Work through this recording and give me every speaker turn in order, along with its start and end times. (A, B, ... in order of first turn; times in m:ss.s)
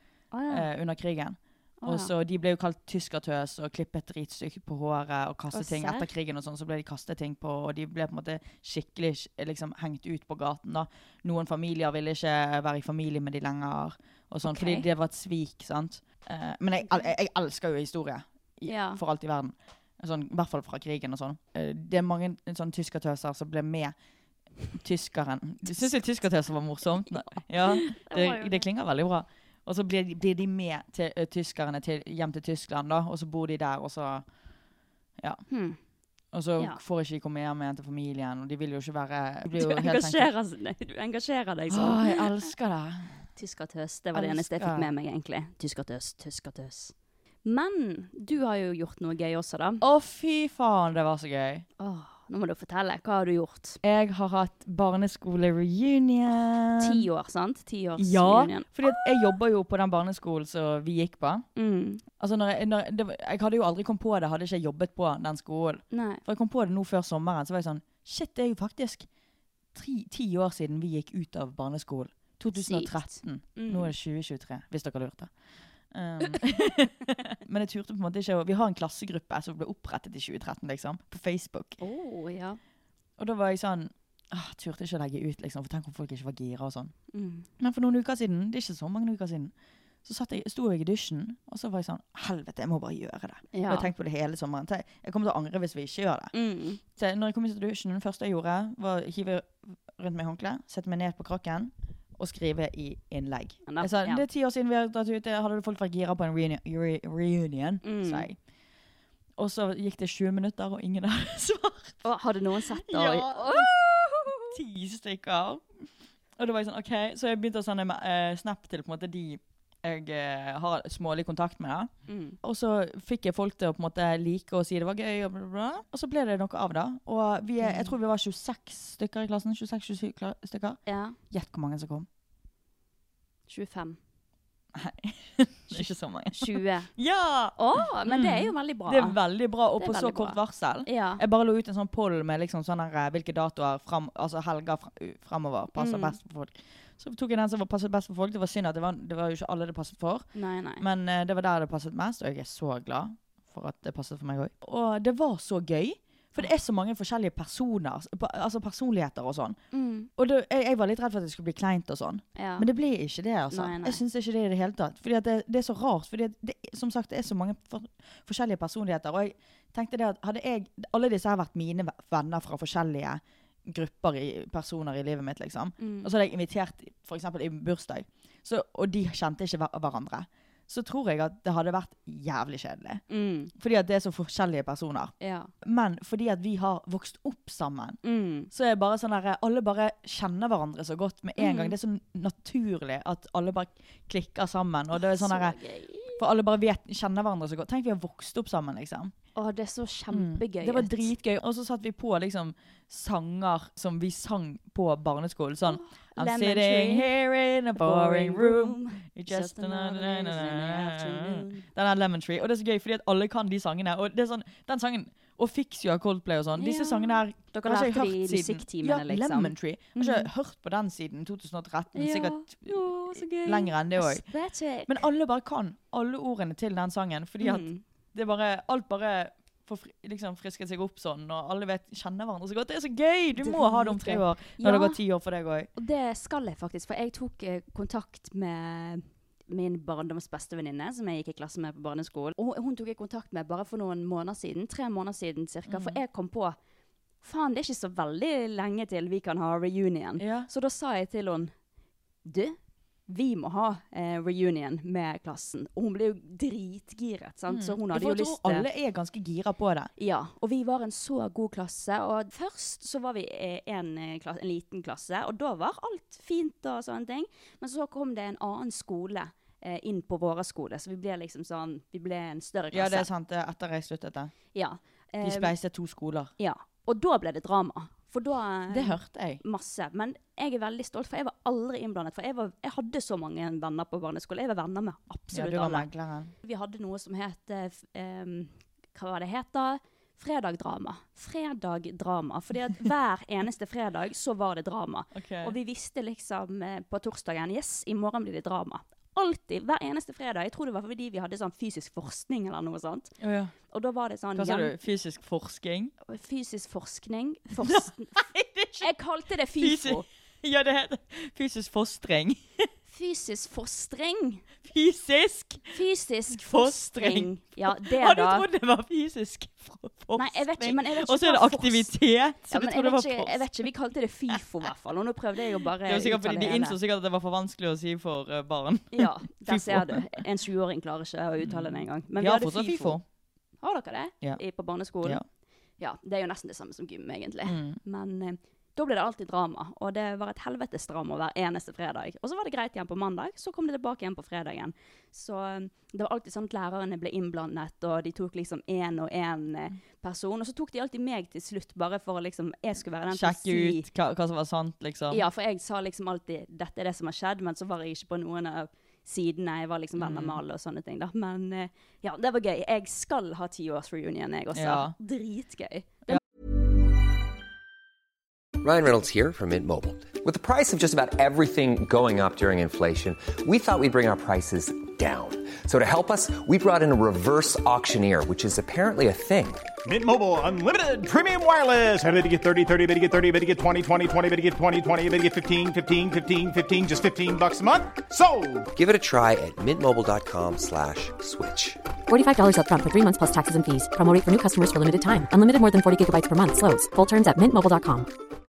0:00.3-0:00.7 A
0:00.5-0:23.9 B
0:01.8-0:02.1 A
0:05.5-0:06.1 A
0:14.4-0:14.9 A
0:18.6-0:19.0 A
0:24.7-0:34.2 B
0:27.2-0:28.6 A
0:35.2-0:35.4 B
0:35.5-0:35.8 A
0:36.3-0:40.3 B
0:39.5-0:42.3 A
0:41.7-0:43.1 B
0:43.4-0:46.9 A
0:44.1-0:44.9 B
0:47.4-0:49.8 A
0:49.8-0:51.6 B
0:51.8-0:53.8 A
0:53.8-0:57.1 B
0:56.8-0:59.0 A
0:58.0-1:01.4 B
1:01.6-1:02.0 A
1:02.2-1:09.1 B
1:05.9-1:06.2 A
1:09.7-1:15.3 B
1:12.5-1:13.9 A
1:15.9-1:21.8 B
1:21.8-1:22.6 A
1:23.2-1:26.9 B
1:27.1-1:27.5 A
1:27.6-1:29.5 B
1:30.0-1:36.3 B
1:33.5-1:33.9 A
1:36.3-1:36.8 A
1:36.9-1:48.4 B
1:43.7-1:44.2 A
1:47.8-1:48.3 A
1:49.4-1:55.7 B
1:52.0-1:54.5 A
1:56.4-2:01.9 B
2:02.1-2:02.4 A
2:02.4-2:12.1 B
2:07.6-2:08.0 A
2:10.9-2:11.2 A
2:13.5-2:14.0 A
2:14.7-2:30.2 B
2:15.7-2:16.9 A
2:17.6-2:19.2 A
2:19.8-2:21.2 A
2:25.8-2:26.2 A
2:30.3-2:30.8 A
2:30.8-2:39.6 B
2:39.7-2:40.1 A
2:40.2-3:03.0 B
2:42.4-2:42.7 A
2:43.5-2:44.0 A
2:55.8-2:56.1 A
3:03.1-3:03.5 A
3:03.5-3:15.6 B
3:05.2-3:05.5 A
3:08.0-3:08.5 A
3:11.4-3:11.8 A
3:14.9-3:16.2 A
3:16.2-3:19.1 B
3:19.4-3:21.1 A
3:20.1-3:44.2 B
3:25.6-3:27.1 A
3:27.8-3:31.7 A
3:36.6-3:40.3 A
3:41.9-3:45.0 A
3:44.8-3:55.7 B
3:47.4-3:47.8 A
3:53.3-3:55.0 A
3:55.8-4:06.6 A
4:05.7-4:06.0 B
4:07.2-4:11.5 A
4:10.2-4:10.5 B
4:12.2-4:18.7 A
4:17.5-4:19.9 B
4:20.0-4:33.1 A
4:32.7-4:34.3 B
4:34.5-4:35.5 A
4:35.2-4:36.3 B
4:36.4-4:45.9 A
4:38.7-4:39.4 B
4:45.3-4:46.3 B
4:46.4-5:03.1 A
4:55.1-4:55.6 B
5:03.2-5:03.5 B
5:03.7-5:04.7 A
5:04.3-5:05.9 B
5:06.0-5:08.2 A
5:07.6-5:08.9 B
5:08.8-5:10.0 A
5:09.5-5:12.7 B
5:12.9-5:14.4 A
5:14.6-5:15.7 B
5:15.7-5:18.5 A
5:16.3-5:23.7 B
5:20.2-5:21.9 A
5:22.5-5:26.8 A
5:25.8-5:30.1 B
5:28.9-5:33.0 A
5:31.4-5:33.0 B
5:33.6-5:35.2 A
5:35.8-5:53.9 A
5:37.4-5:37.8 B
5:53.1-5:55.2 B
5:55.1-6:06.2 A
6:00.0-6:00.4 B
6:04.5-6:04.9 B
6:08.6-6:19.7 C
6:19.8-6:28.6 D
6:28.7-6:31.8 C
6:32.1-6:38.1 E